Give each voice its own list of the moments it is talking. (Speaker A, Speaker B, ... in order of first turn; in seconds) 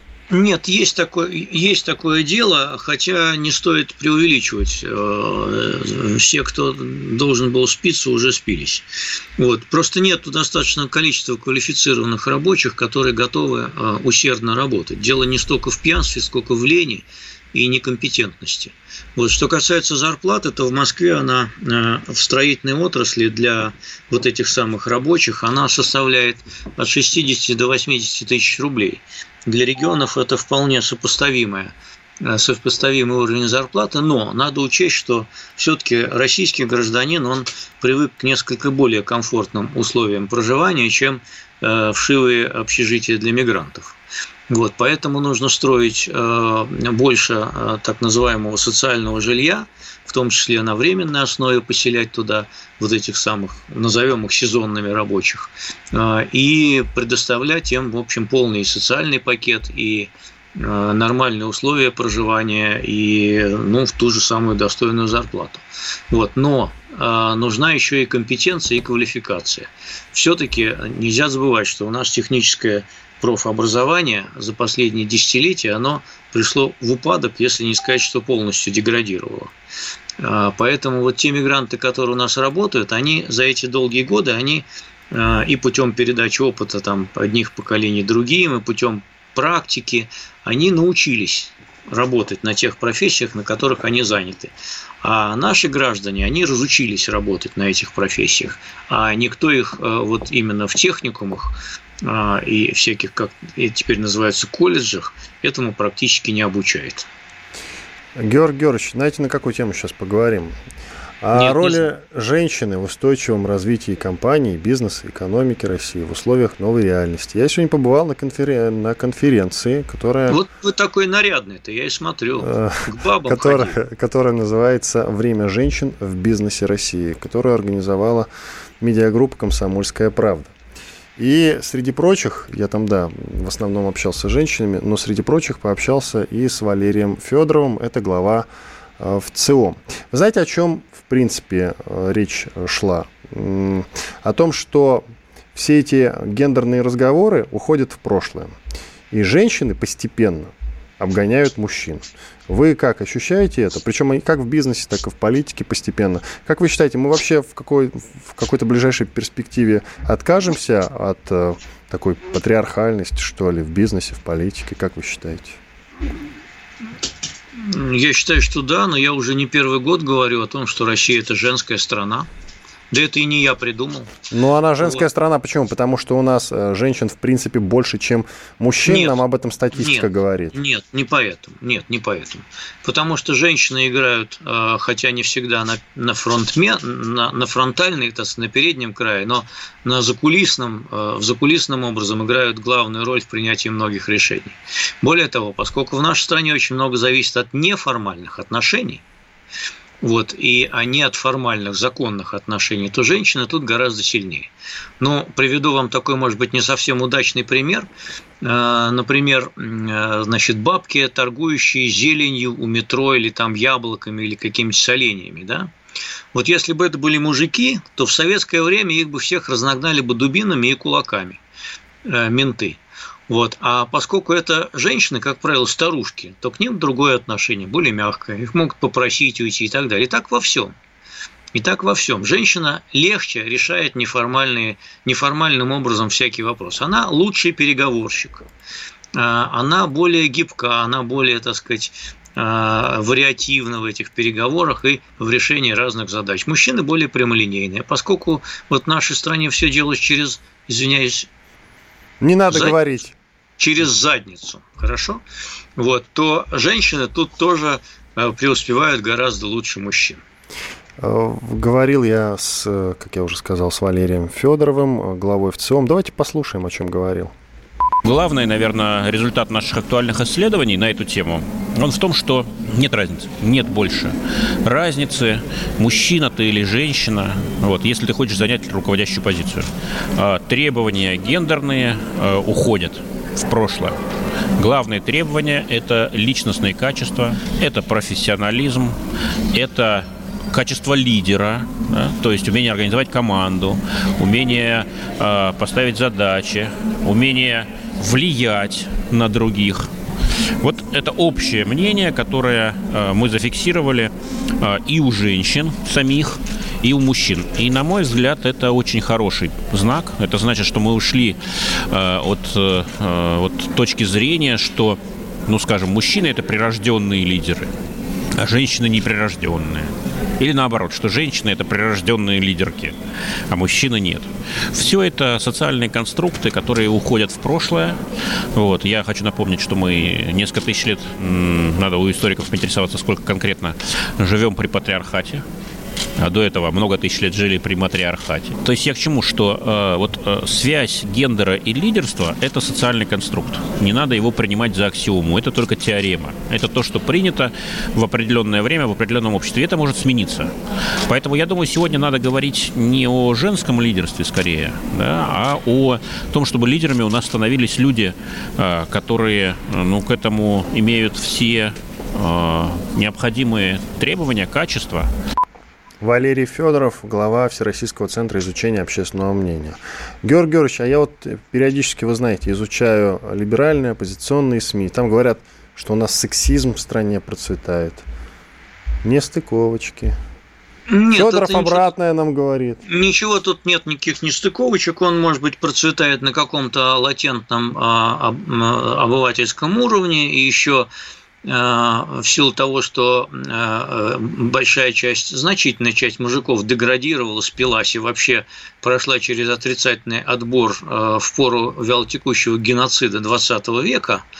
Speaker A: 0.3-8.8, 9.4-43.9, 44.5-79.5, 80.2-107.1, 111.3-111.8, 120.3-123.8, 167.6-172.3, 172.9-174.1, 178.8-179.2, 179.8-199.0, 200.0-207.9, 208.4-215.7, 216.3-221.4, 222.0-230.7, 231.5-238.4, 239.1-251.3, 252.5-252.8, 253.6-255.2, 255.8-260.2, 380.9-381.9, 382.9-390.9, 391.4-404.2
Speaker B: 108.2-110.5, 111.2-120.4, 122.4-128.3, 128.8-130.5, 131.2-138.5, 139.0-148.6, 149.1-165.6, 174.3-180.5, 252.2-253.1, 261.0-267.3, 366.0-378.0, 379.0-380.1, 381.1-382.8
Speaker C: 268.0-284.0, 284.6-288.9, 289.5-299.9, 300.6-317.7, 318.4-322.9, 323.5-328.0, 328.5-335.4, 336.2-350.5, 351.1-365.1